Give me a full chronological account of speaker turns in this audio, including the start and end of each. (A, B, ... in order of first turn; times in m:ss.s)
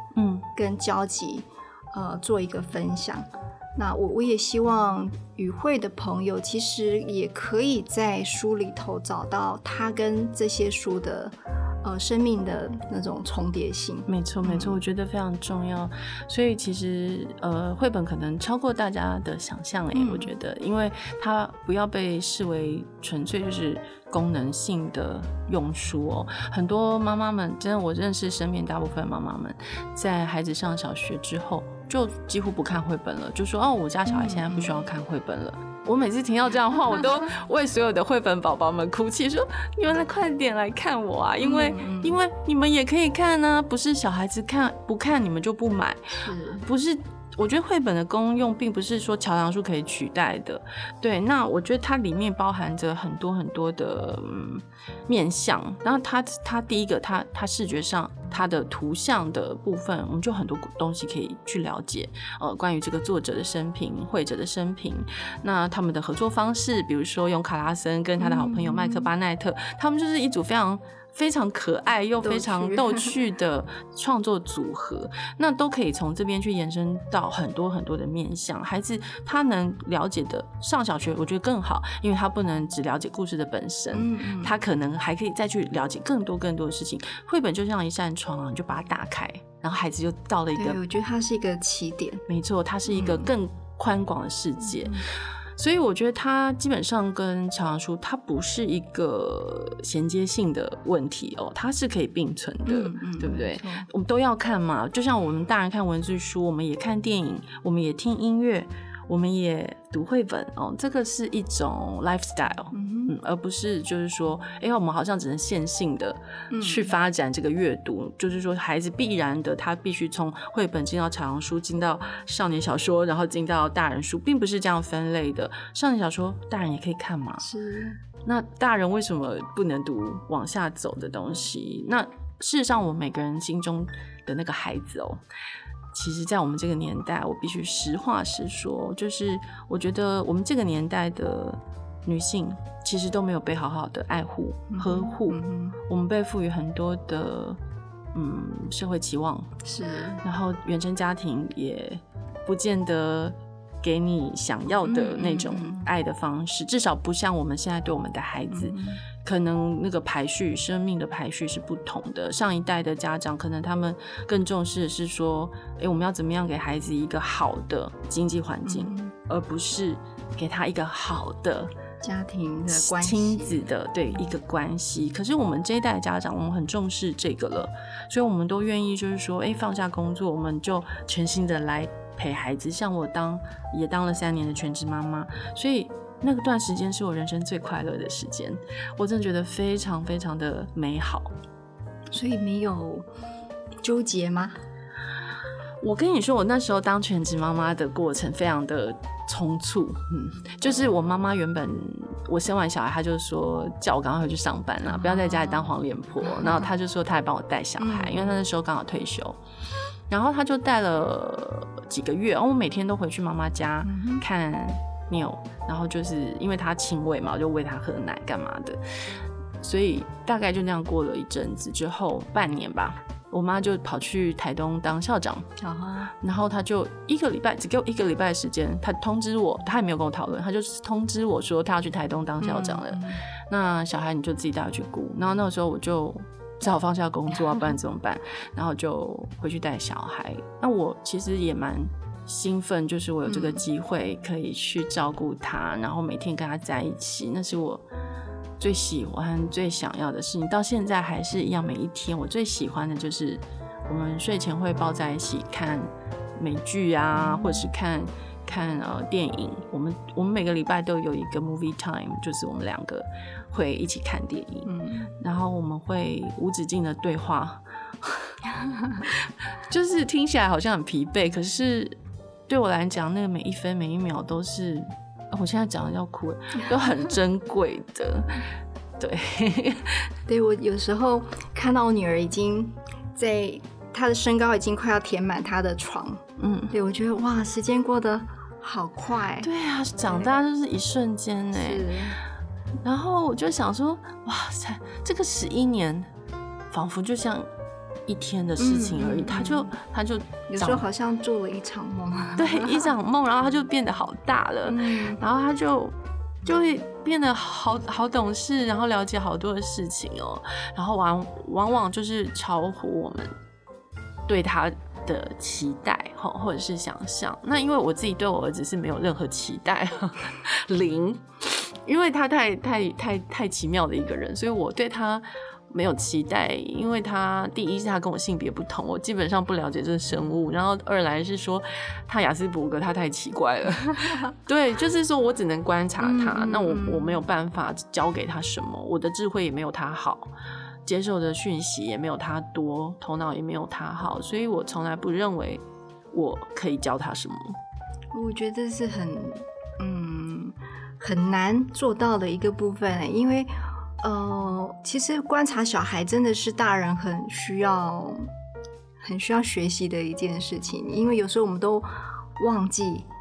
0:00.1-0:00.5 A
0:00.5-0:14.8 B
0:14.1-1:30.8 A
0:19.9-0:20.3 B
0:34.0-0:34.8 B
0:41.4-0:42.2 B
0:46.2-0:46.6 B
1:08.2-1:09.1 B
1:12.2-1:13.1 B
1:23.9-1:24.5 B
1:30.6-1:32.2 B
1:32.3-2:07.4 A
1:32.9-1:33.3 B
1:42.6-1:43.9 B
1:52.7-1:53.1 B
1:56.5-1:56.9 B
2:07.4-2:08.0 B
2:08.2-2:15.2 A
2:15.9-2:27.6 A
2:24.7-2:25.8 B
2:28.1-2:29.6 A
2:29.6-2:30.2 B
2:30.2-2:51.7 A
2:34.8-2:35.9 B
2:38.5-2:39.0 B
2:48.6-2:49.1 B
2:52.0-2:53.6 B
2:52.7-3:11.3 A
3:12.1-3:13.0 B
3:13.8-3:14.6 B
3:15.8-3:29.4 A
3:24.8-3:26.7 B
3:27.8-3:28.4 B
3:30.1-3:38.8 A
3:33.8-3:34.2 B
3:39.6-3:45.5 A
3:45.6-3:46.1 B
3:46.2-4:07.8 A
3:52.4-3:53.2 B
4:03.2-4:03.6 B
4:08.6-4:28.4 A
4:17.2-4:17.6 B
4:24.6-4:25.1 B
4:28.6-4:29.1 B
4:29.6-4:32.0 A
4:32.5-4:38.4 A
4:39.0-4:40.1 A
4:40.3-4:49.5 B
4:46.4-4:46.7 A
4:49.4-4:51.9 A
4:50.1-4:50.4 B
4:51.5-4:52.2 B
4:52.8-4:56.1 A
4:56.7-4:57.5 A
4:58.1-5:00.8 A
4:58.6-4:59.7 B
5:00.5-5:02.9 B
5:02.4-5:13.3 A
5:04.6-5:05.2 B
5:14.3-5:40.3 A
5:36.0-5:37.2 B
5:40.8-5:47.6 A
5:48.1-5:58.3 B
5:59.0-6:03.1 B